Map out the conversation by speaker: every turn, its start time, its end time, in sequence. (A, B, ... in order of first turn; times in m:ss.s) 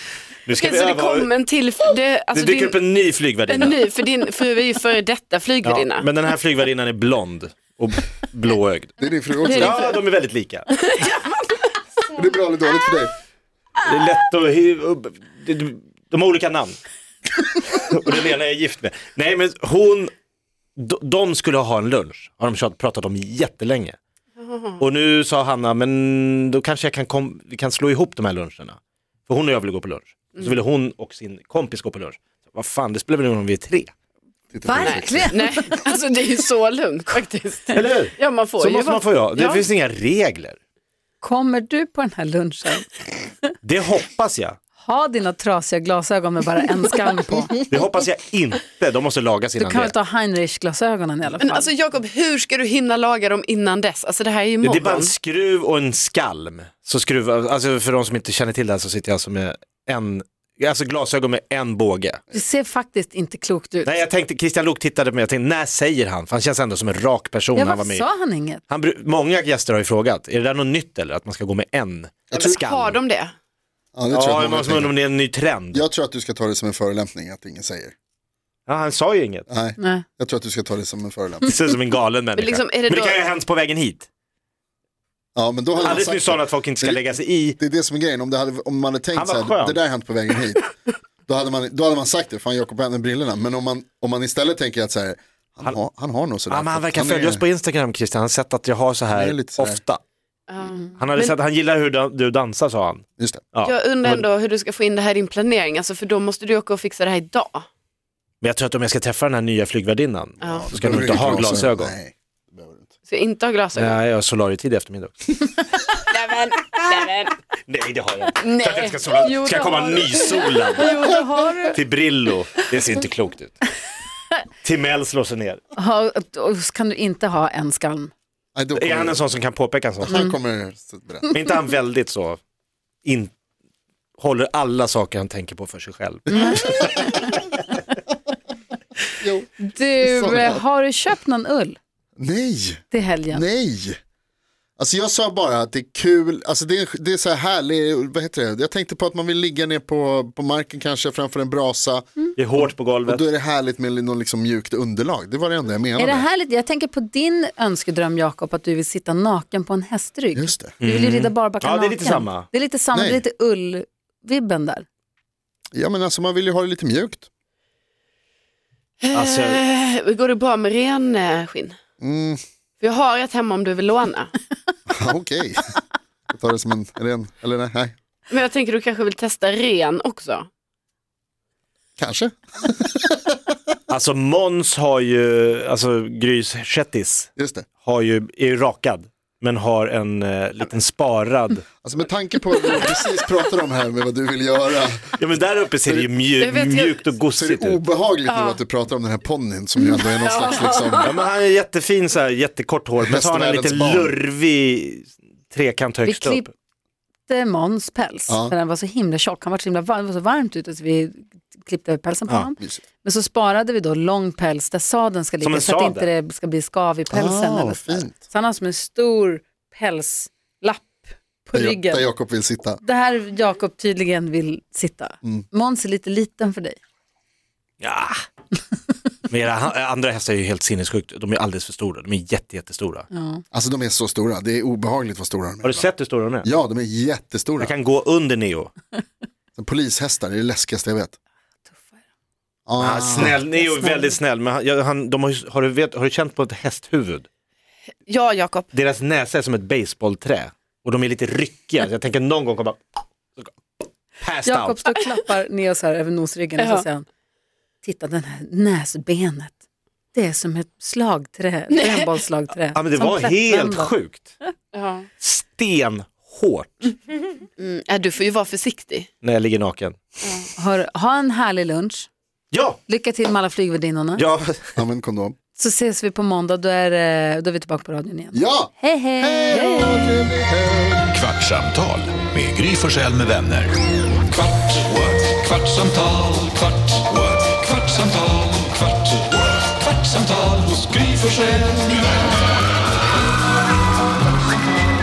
0:00.4-0:01.3 A
0:00.6-0:02.8 B
0:02.3-0:03.9 A
0:03.5-0:06.1 B
0:05.6-0:10.7 A
0:09.0-0:09.8 C
0:09.4-0:10.0 B
0:10.7-0:12.0 B
0:12.1-0:13.1 C
0:13.8-0:16.8 A
0:17.6-0:20.1 A
0:20.8-0:24.0 A
0:24.4-0:24.8 B
0:24.8-0:28.8 A
0:29.3-0:33.9 A
0:34.5-0:35.4 C
0:34.6-0:35.7 D
0:34.8-0:39.6 B
0:37.7-0:40.6 A
0:41.2-0:43.0 D
0:43.6-0:44.6 A
0:44.8-0:47.6 D
0:47.7-0:49.9 A
0:49.6-0:51.7 D
0:51.4-0:55.1 B
0:54.6-1:02.2 A
1:02.3-1:03.9 D
1:03.8-1:08.1 A
1:07.5-1:08.6 D
1:08.7-1:13.0 A
1:12.3-1:12.6 C
1:12.3-1:13.3 B
1:13.9-1:15.0 C
1:14.1-1:15.8 A
1:15.7-1:17.9 C
1:18.7-1:19.4 A
1:19.5-1:21.5 C
1:19.8-1:20.0 D
1:21.4-1:24.0 A
1:22.4-1:23.2 B
1:25.4-1:27.0 C
1:25.8-1:27.6 A
1:27.6-1:30.7 C
1:29.1-1:29.8 A
1:31.3-1:37.4 C
1:36.5-1:40.0 A
1:39.1-1:39.8 C
1:40.5-1:41.3 B
1:41.0-1:44.2 A
1:43.2-1:43.4 C
1:43.6-1:47.7 B
1:48.4-1:51.9 A
1:50.4-1:50.7 B
1:50.6-1:52.9 C
1:53.1-1:54.0 B
1:53.8-1:55.4 A
1:56.0-1:57.4 B
1:57.6-2:01.0 A
1:58.4-2:01.4 B
2:00.8-2:01.8 D
2:01.7-2:03.6 A
2:04.6-2:05.6 A
2:05.8-2:08.1 D
2:08.5-2:09.3 C
2:08.8-2:10.2 A
2:10.0-2:11.4 C
2:10.1-2:10.4 D
2:11.3-2:12.4 A
2:13.0-2:13.3 A
2:14.2-2:16.9 A
2:16.3-2:16.9 C
2:16.3-2:17.3 D
2:19.2-2:20.6 C
2:19.6-2:21.8 D
2:22.2-2:24.0 C
2:22.9-2:23.4 D
2:24.8-2:36.2 C
2:32.4-2:33.2 A
2:36.0-2:44.8 D
2:40.3-2:40.7 C
2:40.8-2:42.5 A
2:42.9-2:43.2 C
2:45.7-2:47.3 C
2:49.0-2:51.8 B
2:49.1-2:49.6 A
2:52.0-2:52.4 C
2:52.8-2:54.3 B
2:54.9-2:55.7 C
2:56.3-2:57.9 C
2:58.3-3:00.5 B
3:02.0-3:03.4 C
3:03.9-3:11.6 A
3:07.4-3:07.7 C
3:11.8-3:15.2 C
3:15.2-3:17.8 A
3:16.4-3:17.0 B
3:17.3-3:21.1 C
3:18.3-3:18.6 B
3:19.8-3:21.2 B
3:21.0-3:26.4 A
3:23.0-3:24.2 C
3:26.0-3:26.5 D
3:27.3-3:42.1 D
3:28.3-3:28.5 C
3:35.4-3:36.1 A
3:37.1-3:38.2 C
3:41.5-3:42.8 C
3:42.8-3:46.8 D
3:47.8-3:48.2 A
3:49.3-3:53.0 A
3:53.1-3:53.4 D
3:53.5-3:55.9 C
3:55.6-3:56.5 A
3:56.4-3:57.7 C
3:57.6-3:58.7 A
3:59.6-4:01.1 C
4:01.7-4:02.0 D
4:02.7-4:03.4 C
4:02.8-4:07.3 A
4:03.4-4:04.2 D
4:08.1-4:08.7 B
4:08.7-4:13.5 A
4:14.2-4:14.8 A
4:14.4-4:17.0 D
4:16.6-4:16.8 B
4:17.8-4:19.5 D
4:20.1-4:24.5 D
4:21.7-4:22.2 B
4:22.7-4:24.3 A
4:24.7-4:25.1 B
4:25.2-4:26.9 A
4:27.6-4:29.1 B
4:29.2-4:30.0 A
4:30.2-4:30.5 B
4:30.6-4:32.1 D
4:32.5-4:32.8 A
4:32.9-4:34.2 D
4:34.2-4:34.7 A
4:34.8-4:35.4 C
4:35.5-4:40.3 D
4:38.3-4:41.1 C
4:41.1-4:43.7 E
4:44.9-4:48.4 E
4:50.2-4:51.6 E